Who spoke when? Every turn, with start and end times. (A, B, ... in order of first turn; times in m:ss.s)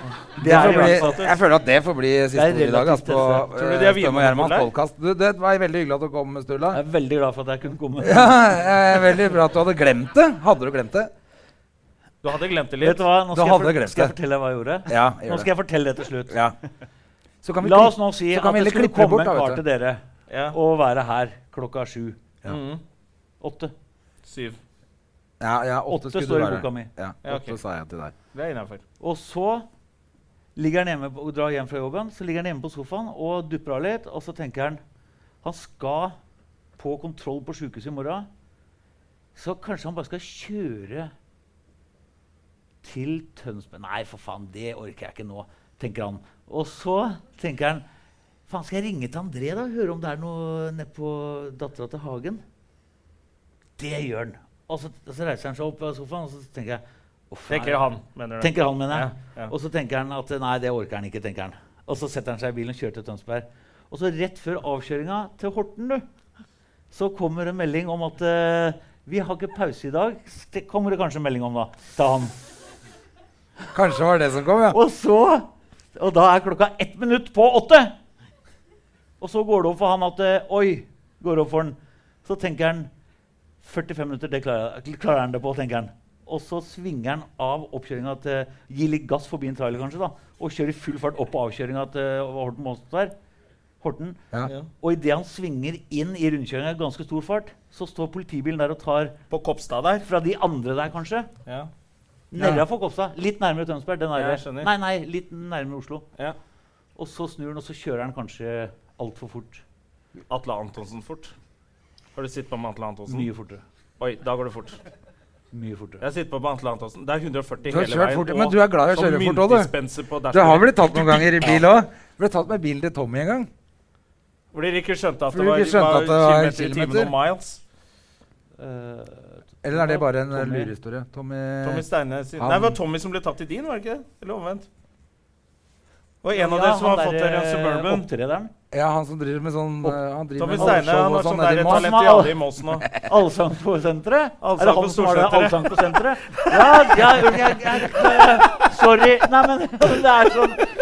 0:00.3-0:01.3 A
0:00.4-0:06.8 B
0:00.4-0:01.3 C
0:02.3-0:03.4 C
0:03.6-0:04.7 A
0:06.7-0:08.5 C
0:08.0-0:11.1 B
0:12.2-0:13.1 A
0:12.8-0:16.4 C
0:13.3-0:14.2 B
0:14.9-0:15.5 B
0:16.3-0:16.6 B
0:17.4-0:19.6 B
0:17.6-0:20.0 C
0:20.3-0:20.6 A
0:20.5-0:22.2 C
0:22.5-0:22.8 A
0:23.4-0:23.7 C
0:24.2-0:24.6 A
0:25.4-0:28.1 B
0:25.9-0:26.9 C
0:27.2-0:27.6 A
0:28.3-0:28.8 A
0:29.0-0:29.7 C
0:30.6-0:34.8 C
0:35.4-0:36.2 C
0:36.8-0:38.3 C
0:39.4-0:41.1 C
0:42.8-0:47.8 C
0:48.5-0:52.4 C
0:53.8-0:57.9 C
0:57.5-0:59.5 A
0:58.4-1:06.0 C
1:06.9-1:12.3 C
1:13.7-1:14.8 B
1:14.7-1:17.9 C
1:19.2-1:22.9 C
1:23.6-1:33.1 C
1:33.8-1:34.2 C
1:34.8-1:39.1 C
1:39.3-1:40.0 A
1:40.0-1:41.3 C
1:42.3-1:46.0 C
1:42.4-1:42.6 B
1:44.1-1:44.7 A
1:47.0-1:49.6 C
1:50.3-1:51.3 A
1:52.2-1:53.3 A
1:53.1-1:53.6 C
1:54.0-1:54.8 A
1:55.5-1:56.0 C
1:56.0-2:01.6 A
1:57.7-1:59.7 B
2:00.3-2:03.5 B
2:04.5-2:07.6 A
2:05.3-2:07.1 B
2:08.6-2:10.7 C
2:09.6-2:11.8 B
2:11.6-2:14.7 A
2:12.4-2:12.8 B
2:16.2-2:18.1 A
2:16.3-2:18.5 C
2:18.7-2:21.9 B
2:20.4-2:22.9 A
2:20.6-2:20.8 C
2:21.6-2:30.6 C
2:24.4-2:28.7 A